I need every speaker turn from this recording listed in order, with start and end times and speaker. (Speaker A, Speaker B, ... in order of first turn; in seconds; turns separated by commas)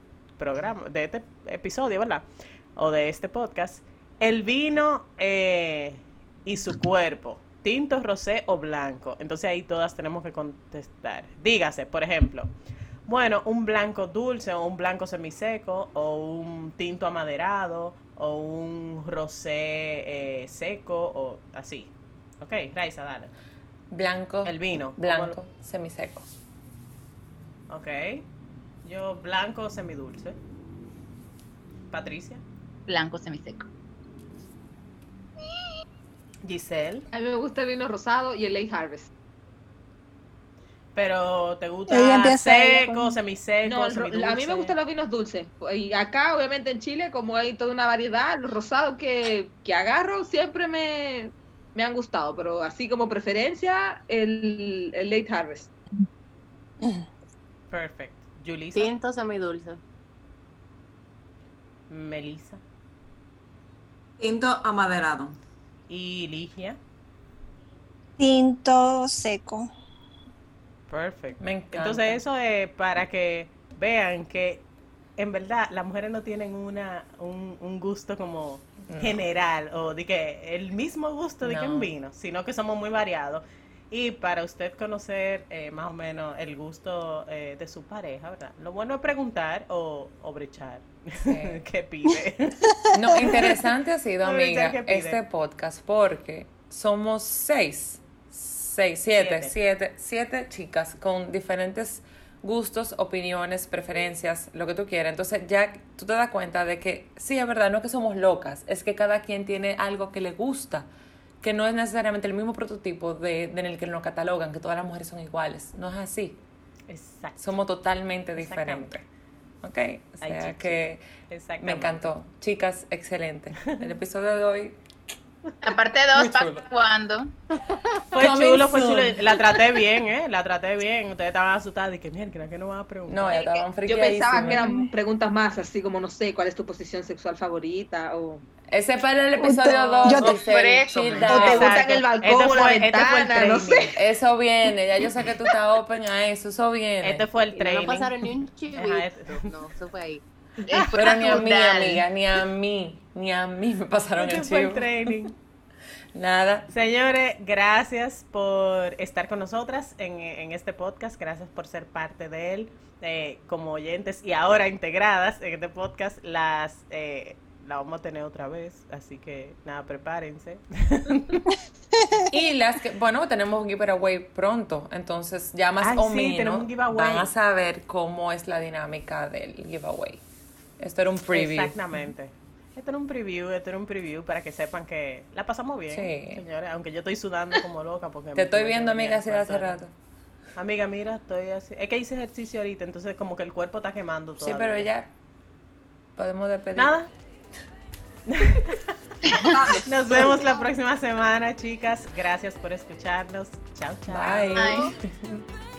Speaker A: 0.4-12.5, Speaker A: 13.1-23.3, Speaker B: 23.9-26.3, Speaker A: 24.4-25.4, Speaker A: 27.7-28.2, Speaker A: 28.8-30.4, Speaker A: 31.9-32.4, Speaker C: 32.9-33.7, Speaker A: 36.4-37.1, Speaker D: 37.1-39.1, Speaker A: 40.9-44.8, Speaker E: 41.9-43.2, Speaker D: 43.6-55.7, Speaker A: 57.7-58.9, Speaker F: 58.7-59.8, Speaker A: 61.9-62.6, Speaker G: 64.2-65.4, Speaker A: 65.9-66.8, Speaker E: 68.2-69.7, Speaker A: 70.9-74.6, Speaker B: 71.4-72.2, Speaker A: 75.2-93.5, Speaker B: 78.9-79.2, Speaker B: 81.4-81.9, Speaker B: 91.2-91.6, Speaker B: 92.9-110.9, Speaker A: 94.2-95.2, Speaker A: 99.1-99.5, Speaker B: 111.4-116.4, Speaker A: 116.9-117.5, Speaker B: 117.4-119.0, Speaker A: 118.3-118.9, Speaker B: 119.6-121.0, Speaker A: 120.2-122.0, Speaker B: 121.6-124.8, Speaker C: 125.6-127.3, Speaker B: 126.1-126.6, Speaker A: 128.1-133.4, Speaker B: 128.1-129.6, Speaker B: 133.1-134.8, Speaker D: 133.3-138.4, Speaker E: 134.5-134.9, Speaker B: 138.7-141.8, Speaker E: 139.4-140.4, Speaker C: 140.0-141.5, Speaker D: 141.3-143.9, Speaker A: 141.3-143.9, Speaker B: 143.8-147.2, Speaker A: 147.0-149.5, Speaker F: 147.5-150.2, Speaker C: 150.7-152.0, Speaker B: 150.9-155.2, Speaker A: 154.2-155.3, Speaker B: 156.1-156.7, Speaker A: 156.7-171.5, Speaker B: 172.3-180.2, Speaker A: 175.8-177.3, Speaker B: 180.8-181.8, Speaker A: 181.3-189.8, Speaker B: 185.9-186.4, Speaker B: 188.3-189.9, Speaker A: 190.6-194.9, Speaker B: 194.4-195.1, Speaker B: 196.2-197.0, Speaker A: 196.8-197.1, Speaker A: 198.3-198.9, Speaker C: 199.2-199.7, Speaker G: 199.5-200.4, Speaker A: 199.8-204.7, Speaker B: 204.1-205.4, Speaker C: 204.5-204.9, Speaker F: 204.5-204.9